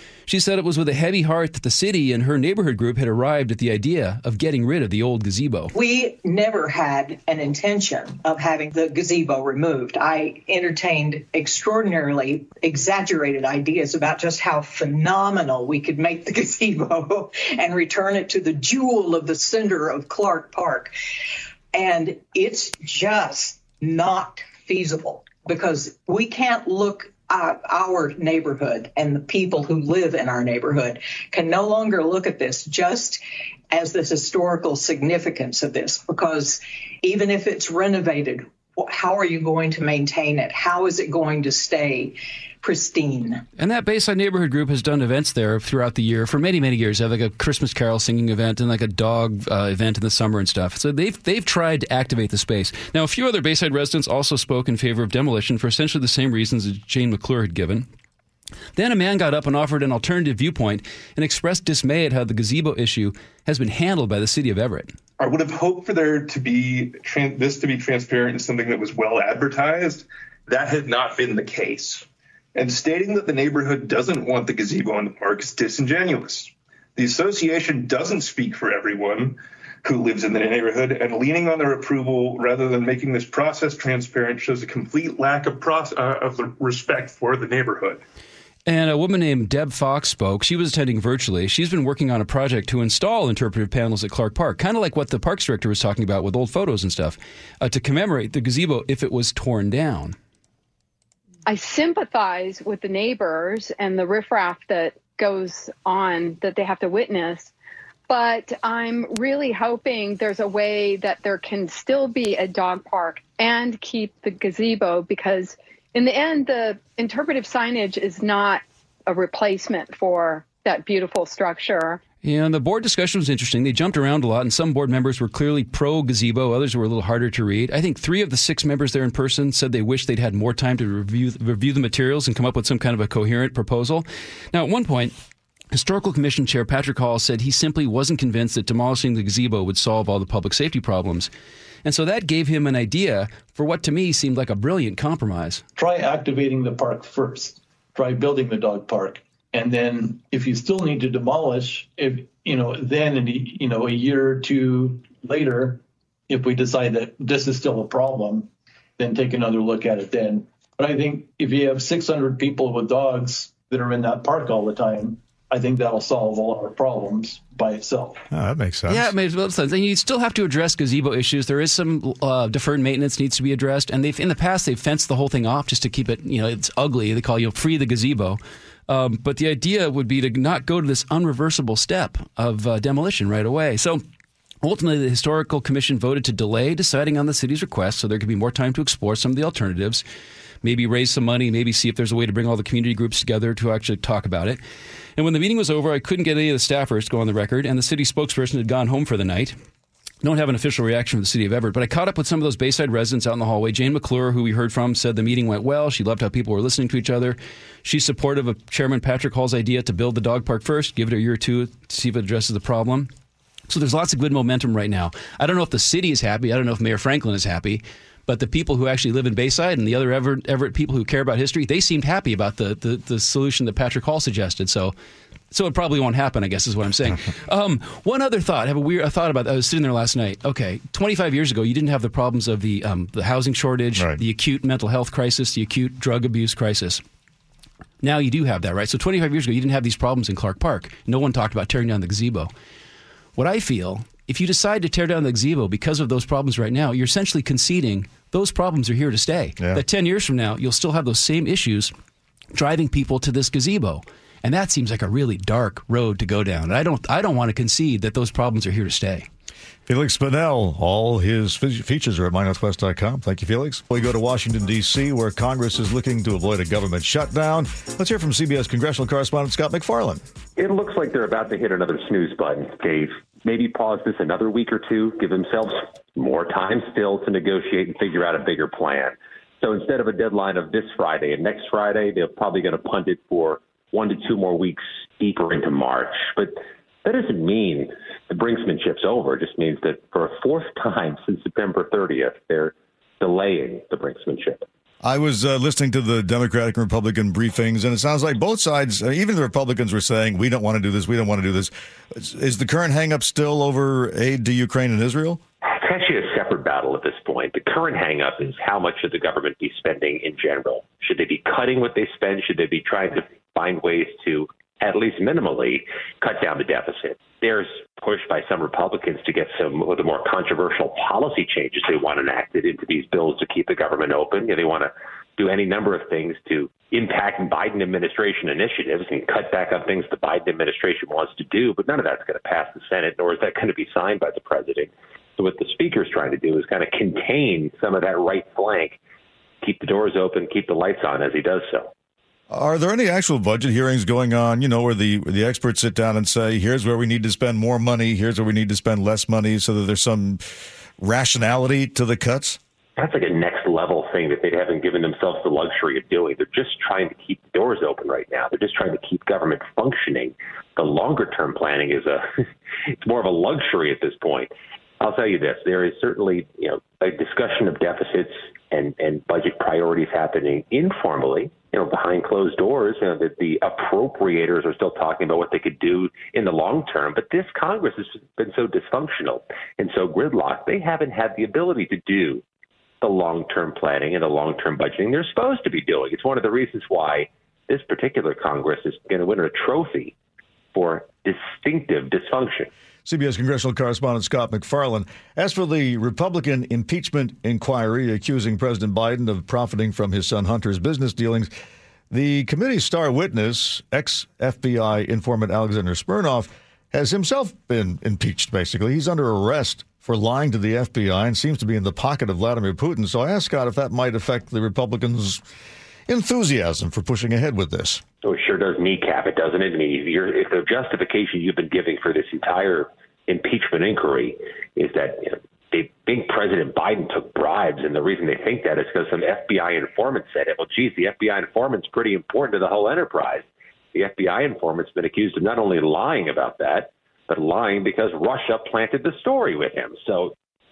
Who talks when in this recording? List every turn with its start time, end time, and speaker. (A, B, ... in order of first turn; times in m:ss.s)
0:00.3-0:05.7 A
0:05.7-0:20.9 B
0:21.7-0:43.4 B
0:43.6-0:57.9 A
0:58.8-1:05.0 A
1:05.2-1:28.0 C
1:28.7-1:40.2 A
1:41.5-1:47.5 D
1:48.1-2:02.0 D
2:02.2-2:15.1 A
2:15.7-2:21.3 A
2:21.8-2:25.6 A
2:25.8-2:48.2 E
2:48.3-2:49.1 F
2:48.9-3:04.0 A
3:04.6-3:10.0 A
3:10.6-3:14.6 A
3:15.2-3:19.6 A
3:20.2-3:33.1 A
3:33.7-3:44.9 A
3:45.5-3:57.0 A
3:58.0-4:02.5 A
4:03.4-4:11.9 A
4:09.6-4:09.8 F
4:12.5-4:19.3 A
4:19.9-4:30.2 F
4:30.6-4:54.6 G
4:55.0-5:05.4 F
5:05.6-5:39.0 G
5:39.6-5:41.9 G
5:42.5-5:50.4 F
5:51.0-5:52.6 F
5:53.0-6:02.3 G
6:03.0-6:22.4 G
6:23.0-6:30.1 G
6:30.7-6:32.7 G
6:33.1-6:41.5 F
6:42.1-6:55.4 F
6:56.1-6:58.0 F
6:58.2-7:20.3 G